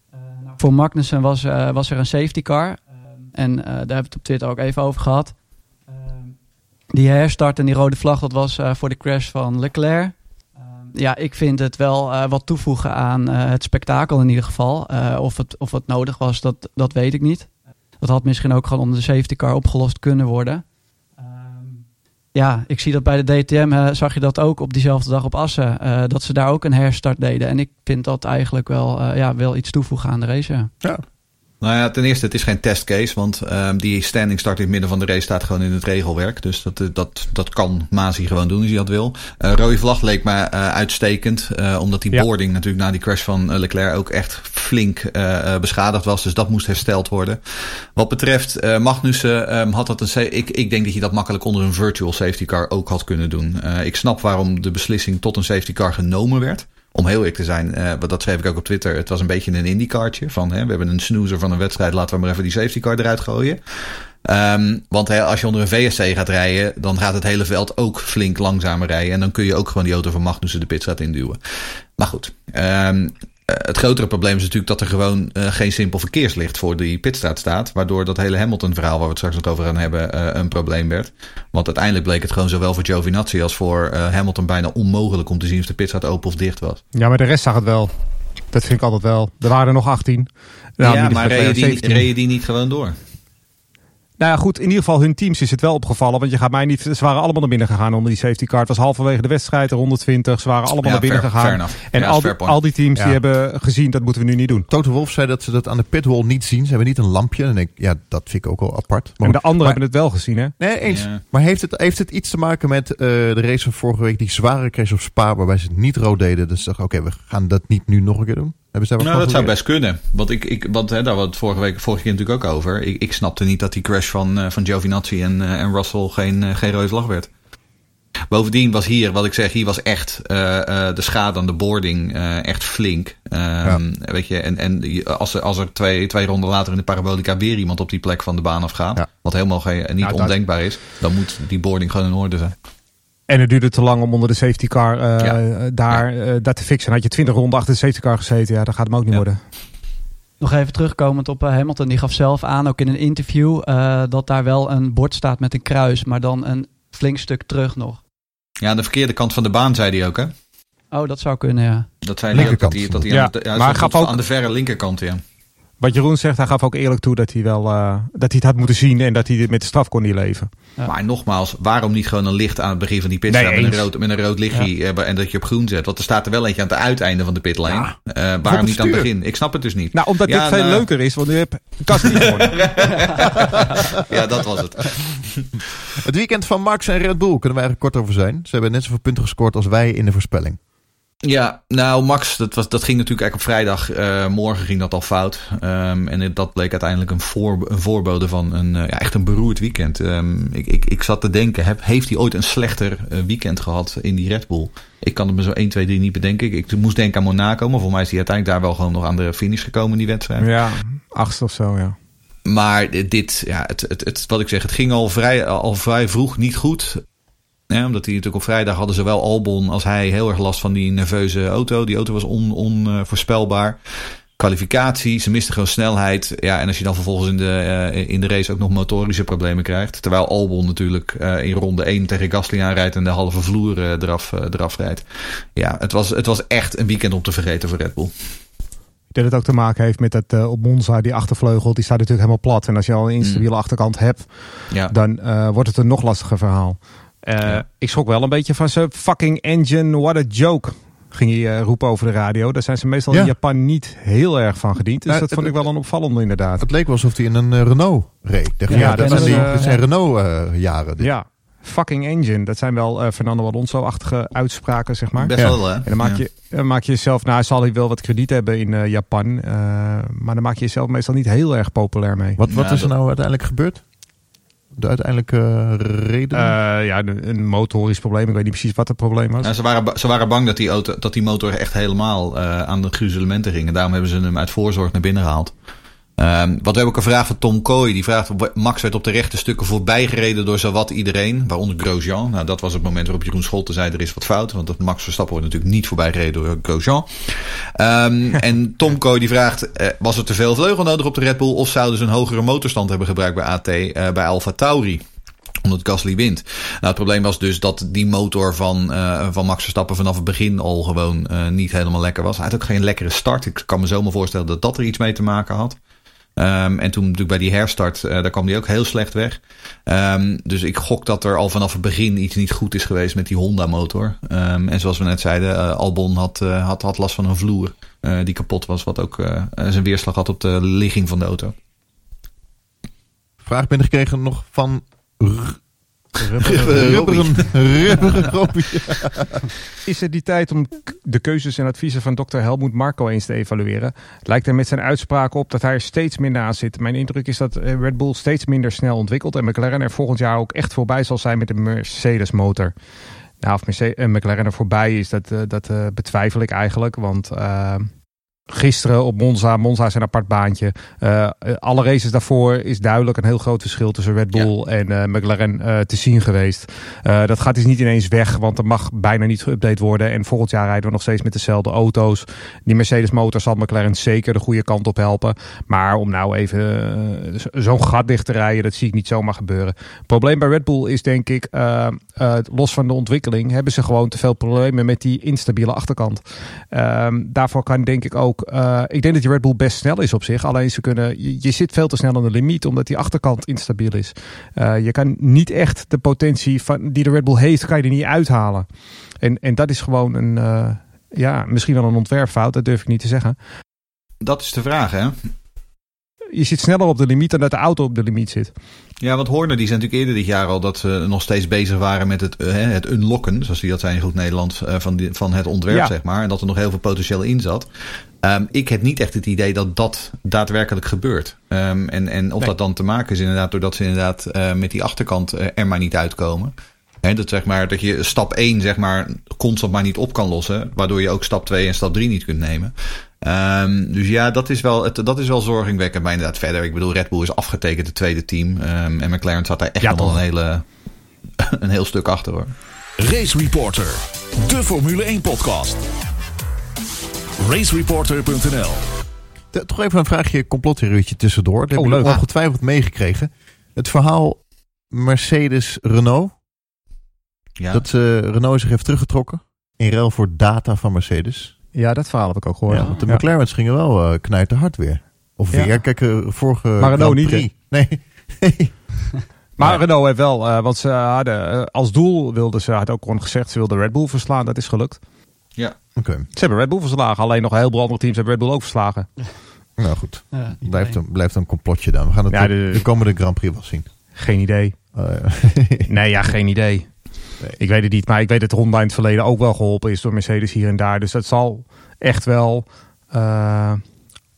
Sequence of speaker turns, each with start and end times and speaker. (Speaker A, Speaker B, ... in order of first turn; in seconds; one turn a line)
Speaker A: 0.2-2.8
Speaker A: 3.3-5.3
Speaker A: 5.9-6.4
Speaker A: 6.9-10.2
Speaker A: 10.8-17.5
Speaker A: 18.0-20.6
Speaker A: 21.2-21.8
Speaker A: 22.3-30.7
Speaker B: 31.6-71.4
Speaker B: 72.0-86.8
Speaker C: 87.0-87.9
Speaker C: 88.5-92.1
Speaker B: 90.8-93.0
Speaker C: 94.2-104.7
Speaker B: 100.8-102.6
Speaker D: 104.7-109.8
Speaker C: 109.2-110.5
Speaker D: 110.6-119.5
Speaker B: 110.9-111.2
Speaker B: 119.0-127.3
Speaker B: 128.3-142.5
Speaker C: 140.0-140.3
Speaker C: 143.3-149.4
Speaker B: 145.2-146.0
Speaker A: 150.4-158.0
Speaker B: 158.6-160.3
Speaker A: 160.9-161.9
Speaker B: 162.0-165.2
Speaker D: 162.3-163.1
Speaker C: 163.1-164.2
Speaker C: 165.8-170.5
Speaker B: 170.9-180.9
Speaker C: 173.3-173.8
Speaker D: 177.7-179.1
Speaker C: 179.9-183.5
Speaker B: 182.0-185.6
Speaker D: 186.0-190.6
Speaker B: 191.2-210.5
Speaker C: 210.4-211.9
Speaker B: 212.4-217.0
Speaker B: 217.7-223.8
Speaker B: 224.4-238.1
Speaker C: 239.1-256.7
Speaker B: 243.2-243.5
Speaker D: 253.1-253.3
Speaker D: 255.1-255.6
Speaker D: 256.6-261.1
Speaker A: 258.7-259.8
Speaker C: 258.7-259.6
Speaker C: 261.0-272.4
Speaker B: 265.1-266.2
Speaker D: 272.4-273.8
Speaker B: 272.4-272.9
Speaker D: 274.7-276.6
Speaker C: 276.3-279.5
Speaker B: 279.4-285.5
Speaker B: 286.2-305.0
Speaker B: 305.6-315.8
Speaker B: 316.4-331.5
Speaker D: 333.4-335.6
Speaker C: 336.2-337.0
Speaker B: 336.4-338.1
Speaker D: 336.4-339.4
Speaker C: 339.8-352.7
Speaker C: 353.4-357.9
Speaker C: 358.5-398.7
Speaker C: 399.2-403.4
Speaker B: 404.2-405.1
Speaker C: 406.3-408.5
Speaker B: 409.0-417.7
Speaker B: 418.2-440.6
Speaker C: 439.8-440.2
Speaker B: 441.4-442.5
Speaker E: 443.0-445.8
Speaker E: 447.4-448.8
Speaker D: 449.5-456.3
Speaker C: 451.8-452.2
Speaker B: 457.6-457.8
Speaker D: 457.7-461.5
Speaker C: 461.8-463.2
Speaker D: 462.7-468.8
Speaker C: 466.8-467.5
Speaker C: 469.6-475.0
Speaker D: 476.0-476.3
Speaker C: 476.4-479.1
Speaker D: 479.8-483.9
Speaker A: 480.3-481.0
Speaker C: 482.3-482.9
Speaker C: 484.1-484.8
Speaker D: 484.9-485.9
Speaker C: 485.9-486.9
Speaker C: 487.6-493.8